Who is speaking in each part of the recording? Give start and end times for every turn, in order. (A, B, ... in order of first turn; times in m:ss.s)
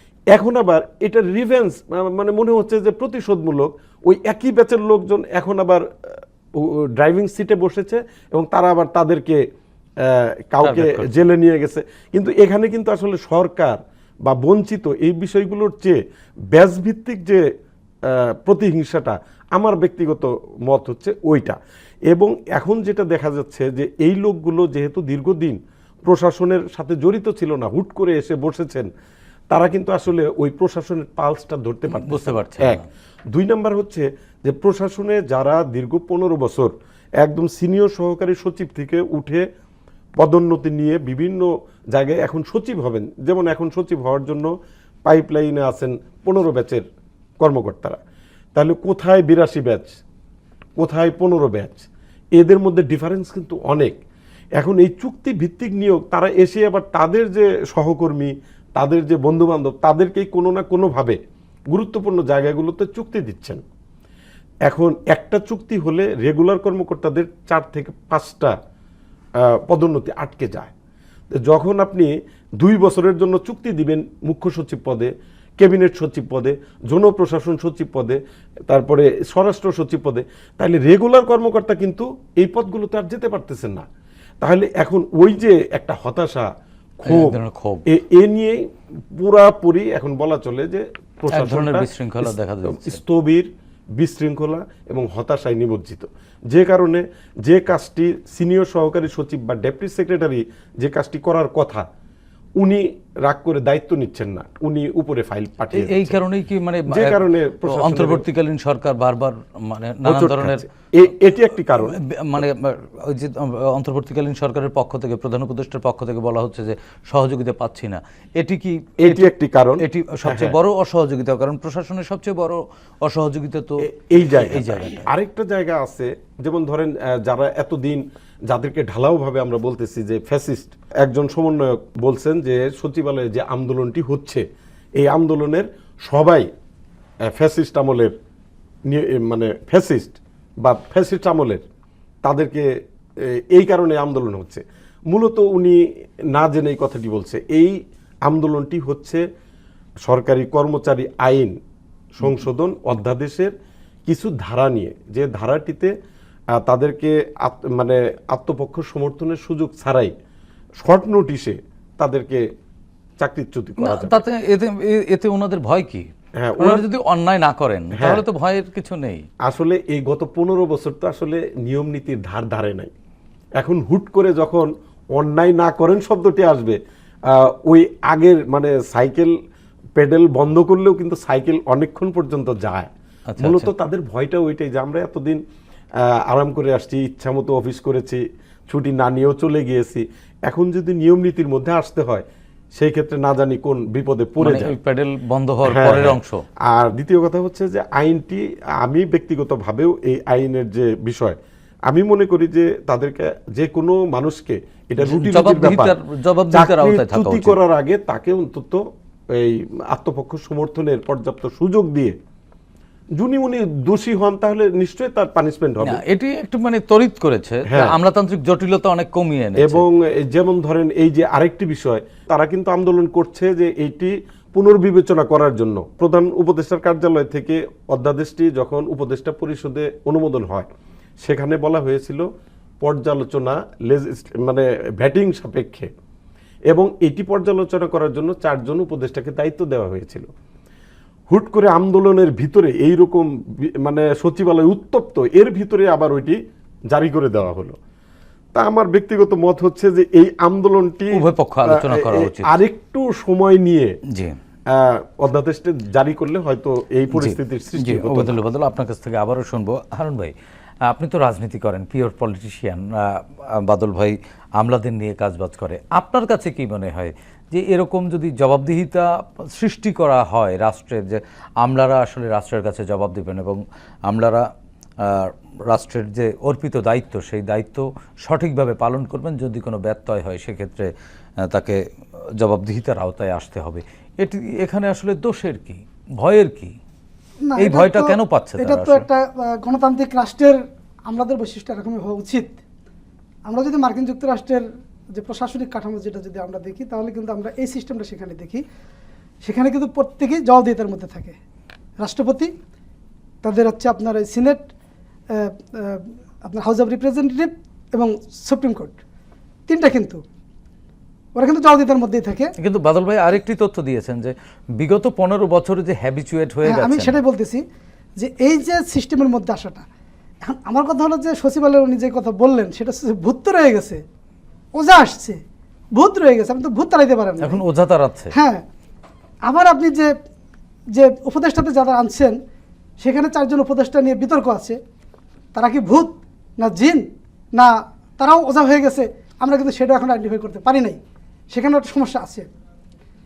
0:00.3-0:09.4 A
0:10.0-0:16.0 A
0:10.6-0:11.2 B
0:16.5-0:17.4 A
0:18.0-0:21.6 A
0:22.1-0:28.9 A
0:29.5-0:39.5 A
0:31.9-0:32.9 B
0:40.2-0:44.5 A
0:45.0-0:46.8 A
0:47.4-0:48.0 A
0:48.5-0:50.0 A
0:50.8-0:54.0 A
0:54.6-1:01.2 A
1:01.7-1:03.6 A
1:04.7-1:08.5 A
1:09.4-1:10.7 A
1:11.3-1:23.9 A
1:24.4-1:28.6 A
1:27.0-1:27.8 B
1:29.2-1:41.9 A
1:31.3-1:33.0 B
1:42.6-1:46.2 A
1:45.7-1:50.6 B
1:46.9-1:48.2 A
1:50.0-1:52.0 A
1:51.8-2:05.1 B
1:59.0-2:00.6 A
2:03.8-2:14.4 A
2:15.0-2:16.5 A
2:17.2-2:18.1 A
2:18.9-2:21.6 A
2:22.2-2:22.7 A
2:23.2-2:25.8 A
2:26.3-2:29.2 A
2:30.0-2:31.6 A
2:32.2-2:33.5 A
2:34.0-2:35.9 A
2:36.5-2:40.1 A
2:40.8-2:42.5 A
2:43.2-2:44.2 A
2:43.8-2:46.1 B
2:46.4-2:46.8 A
2:46.6-2:49.2 B
2:47.9-2:48.2 A
2:49.4-2:52.9 A
2:53.6-2:59.3 A
3:00.0-3:05.4 A
3:03.3-3:03.7 B
3:06.0-3:14.8 A
3:14.4-3:16.4 B
3:15.6-3:26.0 A
3:25.0-3:27.6 B
3:26.5-3:32.2 A
3:33.2-3:36.0 A
3:35.8-3:39.8 B
3:37.7-3:38.0 A
3:39.6-3:50.7 A
3:51.2-3:52.3 A
3:52.8-3:55.9 A
3:56.7-4:00.3 A
4:01.3-4:06.4 A
4:06.9-4:07.8 A
4:08.5-4:14.0 A
4:11.1-4:12.5 B
4:14.1-4:14.4 B
4:14.7-4:18.4 A
4:17.1-4:20.3 B
4:20.8-4:34.5 B
4:35.0-4:41.8 B
4:42.4-4:46.7 B
4:47.4-4:52.6 C
4:47.6-4:49.0 B
4:53.5-4:58.6 C
4:59.4-5:01.4 C
5:02.0-5:02.5 C
5:03.4-5:04.7 C
5:05.3-5:09.0 C
5:09.7-5:10.2 C
5:11.4-5:12.5 C
5:12.6-5:17.2 B
5:16.6-5:17.6 C
5:18.2-5:19.8 C
5:20.4-5:24.0 C
5:24.8-5:25.4 C
5:26.0-5:27.6 C
5:27.4-5:28.3 B
5:28.3-5:28.6 C
5:29.5-5:30.1 C
5:30.9-5:32.4 C
5:33.0-5:34.8 C
5:35.5-5:41.0 C
5:41.5-5:42.5 C